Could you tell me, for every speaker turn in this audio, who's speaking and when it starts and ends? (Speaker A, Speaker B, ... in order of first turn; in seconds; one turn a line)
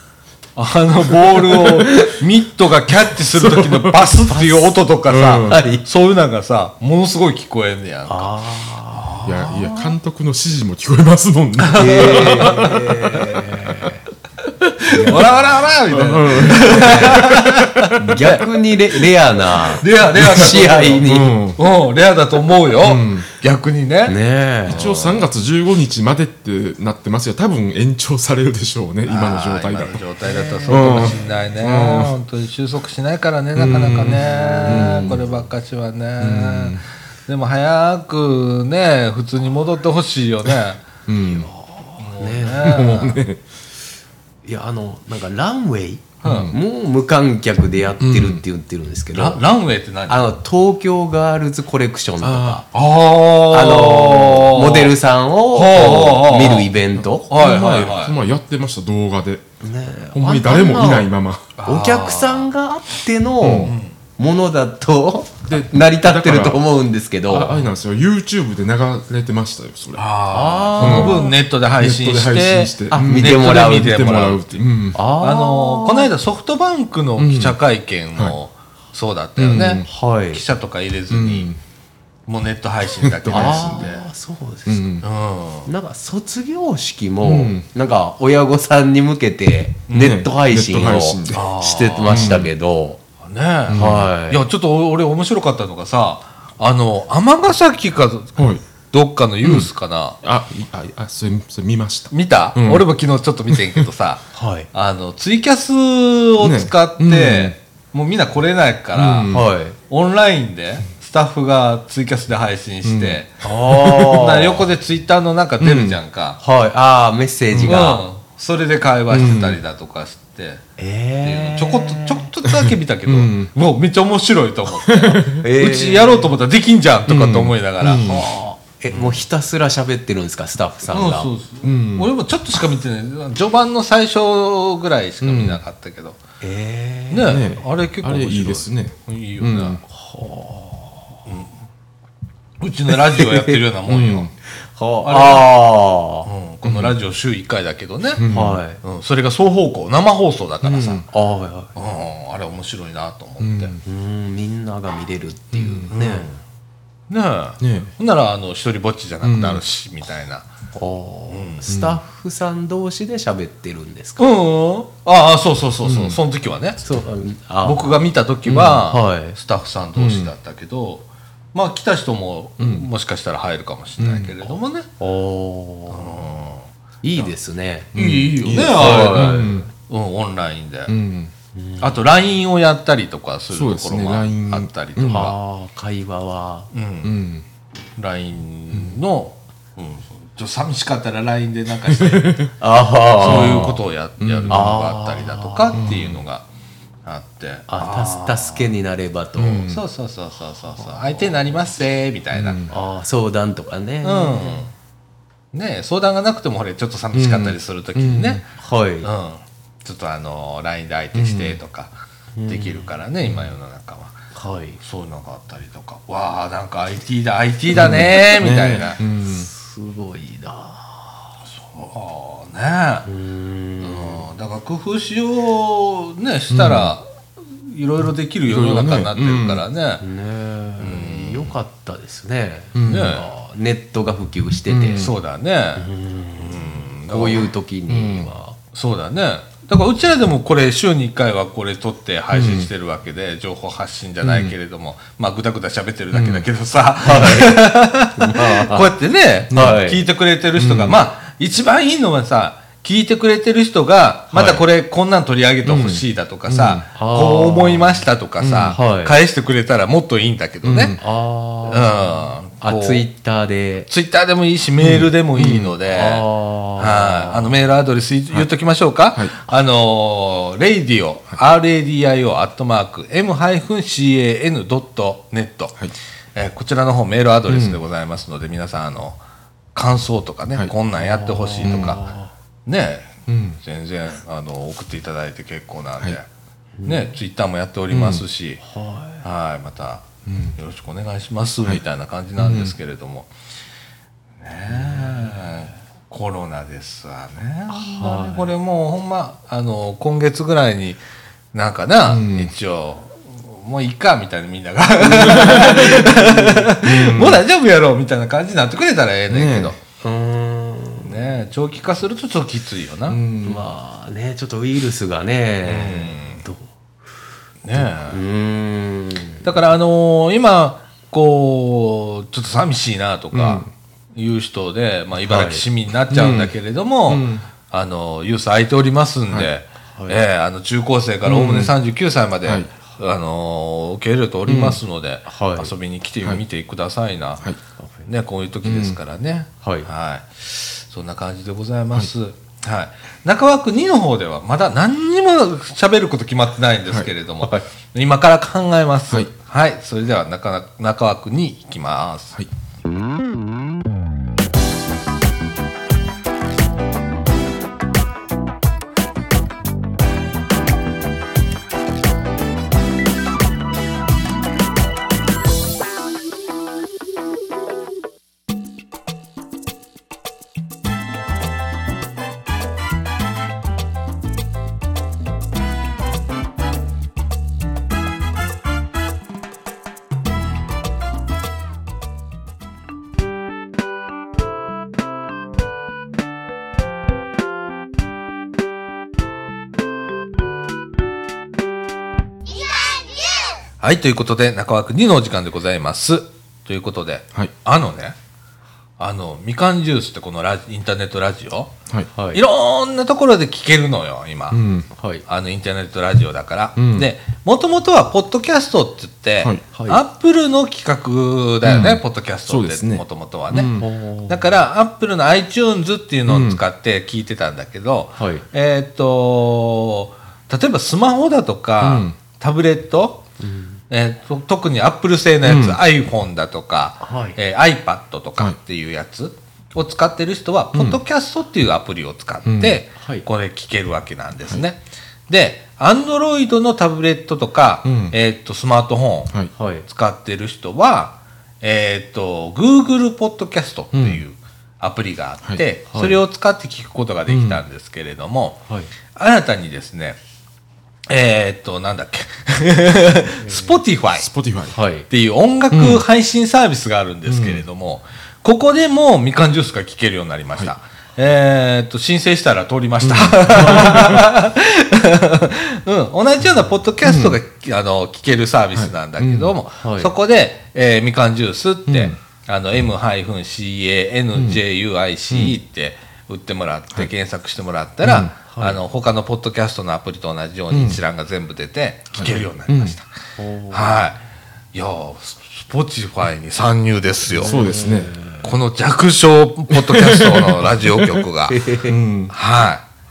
Speaker A: 0.6-8.3
Speaker B: 1.6-2.1
Speaker C: 3.3-4.0
Speaker B: 4.3-4.8
Speaker C: 5.1-5.7
Speaker B: 5.5-5.9
Speaker B: 8.1-9.1
Speaker A: 8.9-9.9
Speaker C: 9.2-12.7
Speaker A: 11.6-13.6
Speaker B: 11.7-14.0
Speaker A: 14.8-18.6
Speaker B: 14.9-15.8
Speaker C: 15.9-18.3
Speaker B: 16.4-17.3
Speaker B: 18.0-21.4
Speaker A: 19.7-25.3
Speaker C: 20.2-21.6
Speaker C: 22.8-23.3
Speaker B: 24.1-24.9
Speaker C: 24.7-30.0
Speaker A: 29.1-40.9
Speaker B: 30.2-31.4
Speaker C: 30.7-32.1
Speaker C: 33.6-35.3
Speaker B: 33.8-35.3
Speaker C: 36.2-36.8
Speaker C: 41.1-41.5
Speaker B: 41.3-43.0
Speaker A: 42.0-43.2
Speaker C: 42.6-43.4
Speaker B: 44.5-49.4
Speaker A: 46.2-46.5
Speaker C: 46.2-46.6
Speaker C: 48.0-48.4
Speaker A: 49.1-50.2
Speaker B: 50.1-52.6
Speaker C: 52.2-52.6
Speaker A: 52.7-54.9
Speaker B: 53.5-57.3
Speaker A: 55.5-56.7
Speaker A: 57.3-58.1
Speaker C: 57.3-59.5
Speaker B: 59.6-61.1
Speaker C: 60.1-61.5
Speaker A: 61.6-62.5
Speaker B: 61.6-67.6
Speaker C: 63.4-63.8
Speaker A: 63.5-64.0
Speaker C: 65.5-66.6
Speaker C: 67.3-70.1
Speaker A: 70.0-74.7
Speaker B: 70.3-71.3
Speaker C: 70.8-75.0
Speaker B: 72.9-74.0
Speaker B: 74.9-76.1
Speaker A: 75.2-81.5
Speaker C: 77.2-77.6
Speaker C: 79.4-79.9
Speaker B: 79.8-80.4
Speaker C: 81.1-81.6
Speaker A: 82.3-84.1
Speaker C: 83.0-83.9
Speaker B: 83.3-85.0
Speaker C: 84.7-85.0
Speaker A: 85.0-85.7
Speaker B: 85.7-93.0
Speaker C: 87.2-87.7
Speaker A: 89.9-90.2
Speaker C: 89.9-91.5
Speaker A: 91.3-92.3
Speaker C: 92.0-92.5
Speaker A: 93.2-100.2
Speaker C: 93.7-94.1
Speaker B: 93.7-94.4
Speaker C: 98.4-98.6
Speaker C: 99.4-99.7
Speaker C: 100.2-102.9
Speaker A: 102.1-109.3
Speaker C: 103.5-103.8
Speaker B: 104.3-104.7
Speaker C: 106.4-107.6
Speaker C: 109.0-109.5
Speaker B: 109.3-109.8
Speaker A: 109.9-116.4
Speaker C: 112.8-113.2
Speaker B: 113.4-114.7
Speaker C: 115.6-116.0
Speaker B: 116.4-118.0
Speaker C: 117.5-117.9
Speaker A: 117.6-120.6
Speaker C: 119.1-119.6
Speaker B: 120.8-122.3
Speaker A: 121.2-129.2
Speaker C: 122.5-123.5
Speaker C: 124.8-125.4
Speaker B: 125.4-126.4
Speaker C: 127.1-128.3
Speaker B: 128.7-131.3
Speaker A: 130.9-136.2
Speaker C: 131.6-132.1
Speaker C: 135.2-135.6
Speaker B: 136.4-137.5
Speaker A: 137.1-139.8
Speaker C: 137.3-139.8
Speaker B: 139.9-141.2
Speaker A: 141.3-141.5
Speaker A: 142.6-144.3
Speaker B: 143.0-143.6
Speaker C: 143.9-144.3
Speaker B: 144.6-146.3
Speaker A: 145.0-145.5
Speaker A: 146.2-148.2
Speaker C: 146.7-146.9
Speaker C: 148.2-148.6
Speaker B: 148.3-148.8
Speaker A: 148.8-151.1
Speaker B: 150.7-151.7
Speaker A: 151.8-153.8
Speaker C: 153.4-153.8
Speaker B: 153.8-156.3
Speaker C: 155.5-155.9
Speaker A: 155.9-156.4
Speaker A: 157.1-160.5
Speaker C: 157.6-157.9
Speaker C: 159.2-159.6
Speaker B: 160.7-164.3
Speaker A: 161.3-161.7
Speaker C: 161.7-162.0
Speaker A: 164.2-166.8
Speaker C: 165.8-166.2
Speaker B: 166.8-169.4
Speaker A: 167.6-174.9
Speaker C: 168.5-168.8
Speaker C: 170.0-170.3
Speaker C: 172.6-172.9
Speaker C: 174.0-174.4
Speaker B: 175.0-176.3
Speaker A: 175.9-177.3
Speaker B: 177.0-177.9
Speaker C: 177.9-179.7
Speaker A: 177.9-180.9
Speaker B: 178.7-179.7
Speaker C: 180.9-181.3
Speaker B: 181.6-182.0
Speaker A: 181.8-185.3
Speaker C: 183.5-185.3
Speaker B: 185.1-186.7
Speaker A: 186.7-187.2
Speaker C: 187.0-187.5
Speaker A: 188.0-192.6
Speaker C: 191.9-192.5
Speaker B: 192.6-193.8
Speaker A: 193.2-196.4
Speaker C: 193.2-194.9
Speaker B: 194.5-195.8
Speaker C: 195.8-196.2
Speaker A: 197.1-198.7
Speaker B: 197.7-199.7
Speaker C: 199.4-199.8
Speaker A: 199.7-202.6
Speaker B: 200.8-201.2
Speaker C: 202.3-202.8
Speaker B: 202.7-204.7
Speaker A: 204.0-204.7
Speaker A: 205.5-208.5
Speaker C: 207.1-208.4
Speaker B: 208.6-209.1
Speaker A: 209.0-211.9
Speaker C: 211.1-211.6
Speaker B: 212.4-212.9
Speaker A: 212.5-214.2
Speaker B: 214.3-214.8
Speaker A: 214.8-219.0
Speaker C: 217.7-219.5
Speaker B: 219.2-221.4
Speaker A: 221.5-223.1
Speaker B: 223.1-224.3
Speaker A: 223.8-230.0
Speaker C: 226.5-226.9
Speaker C: 228.5-229.6
Speaker B: 230.0-235.1
Speaker A: 230.8-231.6
Speaker C: 232.8-233.2
Speaker A: 232.8-233.3
Speaker C: 234.7-235.1
Speaker A: 234.9-237.5
Speaker B: 235.8-238.6
Speaker C: 237.9-238.3
Speaker A: 238.7-261.0
Speaker C: 242.3-242.7
Speaker C: 244.2-244.6
Speaker C: 246.1-246.5
Speaker B: 247.0-248.9
Speaker B: 249.5-250.0
Speaker C: 249.5-249.8
Speaker C: 250.6-251.0
Speaker B: 254.3-254.6
Speaker C: 255.7-256.9
Speaker B: 256.9-258.1
Speaker C: 258.4-258.8
Speaker B: 258.7-259.2
Speaker C: 260.6-261.0
Speaker B: 261.0-263.9
Speaker A: 261.7-263.1
Speaker A: 263.9-266.3
Speaker C: 264.8-265.7
Speaker B: 265.9-267.6
Speaker A: 266.8-275.8
Speaker A: 276.4-279.2
Speaker C: 277.5-277.8
Speaker A: 279.7-282.1
Speaker B: 281.0-282.3
Speaker C: 281.6-282.0
Speaker A: 282.7-286.3
Speaker C: 283.3-283.6
Speaker B: 286.8-287.1
Speaker A: 286.8-288.6
Speaker C: 287.9-288.2
Speaker B: 288.6-289.2
Speaker A: 289.2-293.3
Speaker C: 290.3-290.6
Speaker C: 292.4-292.7
Speaker A: 294.4-301.0
Speaker B: 294.7-295.3
Speaker B: 297.7-298.5
Speaker A: 301.5-309.8
Speaker C: 302.1-302.5
Speaker B: 305.0-306.7
Speaker C: 305.2-306.1
Speaker C: 306.8-307.4
Speaker C: 309.3-309.8
Speaker B: 310.0-311.2
Speaker A: 311.0-313.2
Speaker C: 313.1-313.6
Speaker B: 313.4-316.7
Speaker A: 315.6-316.4
Speaker A: 317.6-318.2
Speaker B: 317.8-319.5
Speaker A: 319.4-337.4
Speaker C: 323.3-323.7
Speaker B: 325.3-325.6
Speaker C: 326.1-326.6
Speaker C: 327.1-327.4
Speaker C: 331.3-331.8
Speaker C: 332.4-332.7
Speaker C: 334.5-334.8
Speaker B: 335.3-335.7
Speaker A: 338.1-352.4
Speaker C: 338.6-339.0
Speaker B: 339.6-339.9
Speaker A: 393.8-398.2
Speaker A: 399.0-401.8
Speaker B: 402.1-402.4
Speaker A: 402.3-404.6
Speaker C: 404.5-404.9
Speaker B: 404.9-405.2
Speaker A: 405.3-423.2
Speaker C: 406.8-407.1
Speaker B: 409.7-410.0
Speaker C: 411.6-413.9
Speaker B: 413.8-414.5
Speaker C: 416.3-416.6
Speaker B: 418.2-418.4
Speaker C: 421.8-422.2
Speaker B: 423.4-423.8
Speaker A: 423.9-439.3
Speaker C: 425.4-425.8
Speaker B: 427.0-427.4
Speaker C: 430.7-431.0
Speaker C: 432.4-432.8
Speaker B: 433.0-433.3
Speaker C: 437.8-438.1
Speaker B: 439.6-439.9
Speaker A: 439.9-448.6
Speaker C: 443.9-444.2
Speaker B: 445.9-446.2
Speaker C: 447.3-447.6
Speaker A: 449.1-450.2
Speaker A: 451.1-454.3
Speaker B: 453.4-453.8
Speaker C: 454.2-454.8
Speaker B: 454.7-455.1
Speaker A: 455.1-483.1
Speaker C: 455.7-456.0
Speaker C: 457.3-457.6
Speaker C: 463.0-464.3
Speaker B: 463.6-464.1
Speaker C: 467.0-467.4
Speaker C: 468.8-469.5
Speaker B: 469.8-470.1
Speaker C: 471.9-472.2
Speaker C: 475.3-475.6
Speaker C: 478.0-478.3
Speaker B: 478.5-478.8
Speaker C: 480.7-481.0
Speaker C: 482.2-482.9
Speaker B: 483.4-484.1
Speaker A: 483.7-484.2
Speaker A: 484.7-487.6
Speaker B: 487.4-488.5
Speaker C: 487.4-488.1
Speaker A: 488.4-491.6
Speaker C: 489.7-491.2
Speaker B: 491.5-492.0
Speaker C: 491.9-492.3
Speaker A: 492.3-492.8